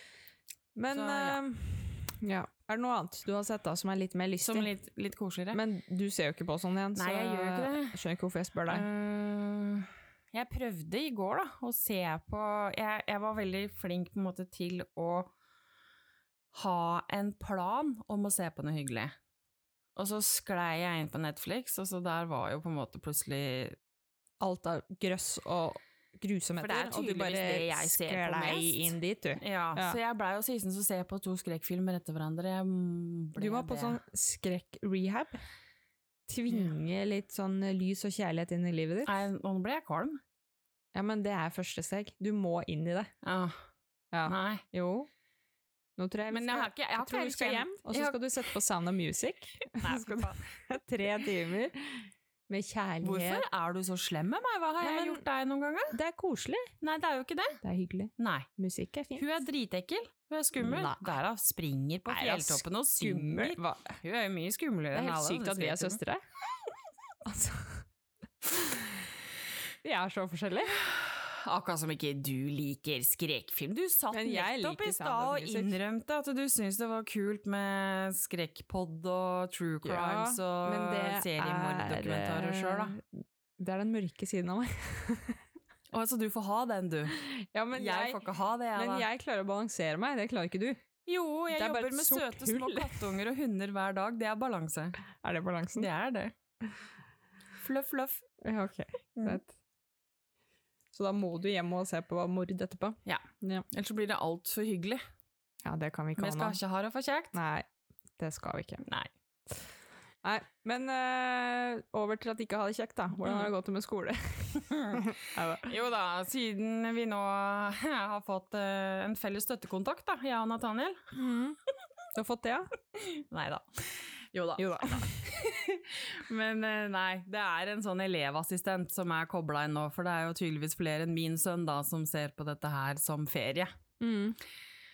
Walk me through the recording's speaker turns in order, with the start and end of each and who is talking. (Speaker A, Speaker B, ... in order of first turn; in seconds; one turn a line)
Speaker A: 0.8-4.7
Speaker B: 0.9-1.4
Speaker B: 4.4-5.6
Speaker A: 5.5-8.9
Speaker B: 6.9-8.0
Speaker B: 8.7-15.3
Speaker B: 16.5-19.1
Speaker B: 19.9-23.8
Speaker A: 24.4-30.0
Speaker B: 26.6-34.0
Speaker A: 33.4-35.4
Speaker A: 36.3-39.2
Speaker B: 39.0-40.2
Speaker A: 40.9-43.1
Speaker B: 43.2-43.6
Speaker A: 44.1-45.1
Speaker B: 44.2-44.6
Speaker A: 46.0-53.5
Speaker B: 46.3-48.2
Speaker B: 49.8-50.4
Speaker B: 53.0-55.9
Speaker A: 54.8-55.2
Speaker A: 55.9-56.7
Speaker B: 56.8-57.6
Speaker A: 57.6-59.2
Speaker B: 58.2-58.5
Speaker B: 59.1-66.0
Speaker A: 60.6-61.1
Speaker A: 62.1-64.0
Speaker A: 64.9-66.2
Speaker A: 67.2-67.8
Speaker A: 68.5-68.9
Speaker A: 69.8-70.8
Speaker B: 70.8-83.0
Speaker A: 74.1-75.8
Speaker A: 79.8-83.1
Speaker A: 83.6-85.4
Speaker B: 85.9-87.2
Speaker A: 87.2-88.2
Speaker B: 87.7-89.0
Speaker A: 88.8-90.8
Speaker B: 91.0-95.0
Speaker A: 91.5-93.1
Speaker A: 95.2-95.9
Speaker B: 95.8-96.3
Speaker B: 97.6-98.2
Speaker A: 98.4-99.5
Speaker B: 99.2-99.4
Speaker A: 100.9-103.7
Speaker B: 103.0-105.0
Speaker A: 105.6-106.6
Speaker B: 106.2-107.3
Speaker A: 107.3-107.7
Speaker A: 108.2-108.8
Speaker B: 108.8-109.1
Speaker A: 110.2-115.7
Speaker B: 113.2-113.5
Speaker B: 114.7-115.0
Speaker B: 115.6-121.0
Speaker A: 121.1-121.6
Speaker A: 122.1-122.7
Speaker B: 123.0-133.7
Speaker A: 124.6-125.3
Speaker A: 134.0-134.4